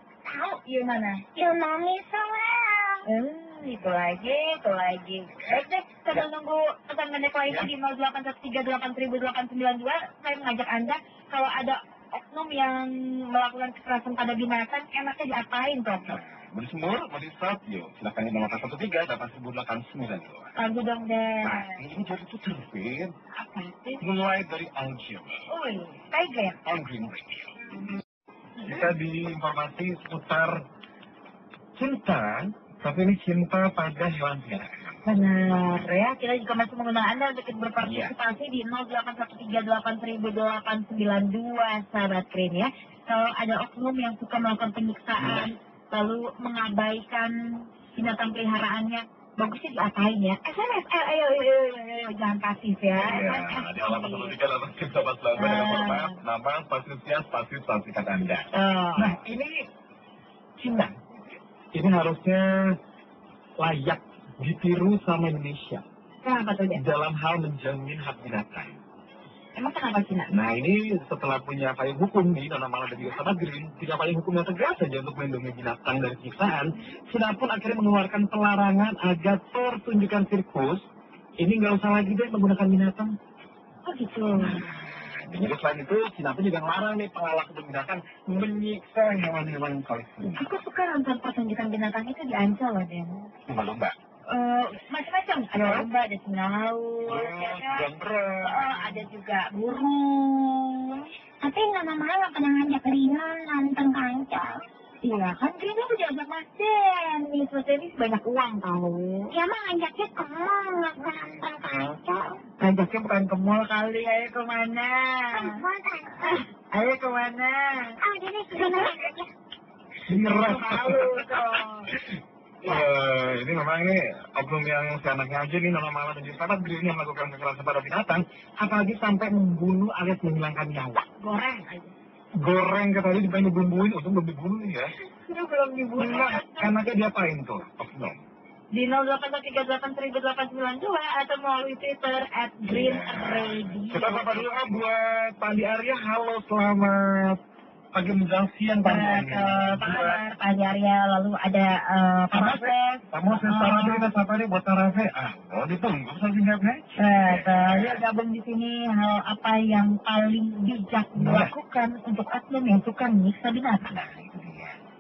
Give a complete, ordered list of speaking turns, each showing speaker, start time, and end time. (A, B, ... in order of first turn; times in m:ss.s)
0:00.3-0:01.2 A
0:01.3-0:03.1 B
0:03.0-0:16.2 A
0:05.4-0:05.6 C
0:16.1-0:20.5 C
0:20.6-0:21.8 A
0:21.4-0:23.1 C
0:23.3-0:24.0 A
0:24.0-0:25.4 C
0:25.5-0:26.6 A
0:26.6-0:27.6 C
0:28.6-0:28.9 A
0:28.6-0:30.6 C
0:31.8-0:35.0 C
0:35.0-0:47.3 A
0:37.8-0:38.1 C
0:45.2-0:45.5 C
0:47.9-0:54.4 A
0:53.0-0:59.6 C
0:55.4-0:56.2 A
0:58.5-0:59.2 A
1:00.6-1:01.0 C
1:01.7-1:02.8 C
1:03.6-1:05.8 C
1:06.2-1:06.8 A
1:06.7-1:08.8 C
1:09.6-1:10.3 A
1:10.3-1:20.8 C
1:21.4-1:23.1 C
1:23.8-1:24.6 A
1:24.3-1:30.4 C
1:30.4-1:33.3 A
1:33.5-1:34.0 C
1:34.3-1:37.9 A
1:35.5-1:35.9 C
1:37.1-1:39.1 C
1:38.4-1:41.1 A
1:41.4-1:44.6 B
1:45.0-1:49.3 A
1:49.3-1:52.4 B
1:52.6-1:55.6 A
1:55.3-1:56.4 B
1:56.2-1:58.0 A
1:58.0-1:59.3 B
1:58.5-1:59.0 A
2:00.1-2:11.0 C
2:00.2-2:02.0 A
2:11.2-2:11.9 A
2:12.4-2:14.9 C
2:15.2-2:16.7 A
2:16.0-2:18.2 C
2:18.7-2:24.5 A
2:22.7-2:27.4 C
2:27.9-2:30.2 C
2:28.8-2:34.1 A
2:32.3-2:38.0 C
2:37.0-2:44.0 A
2:41.2-2:41.5 C
2:43.9-2:44.8 C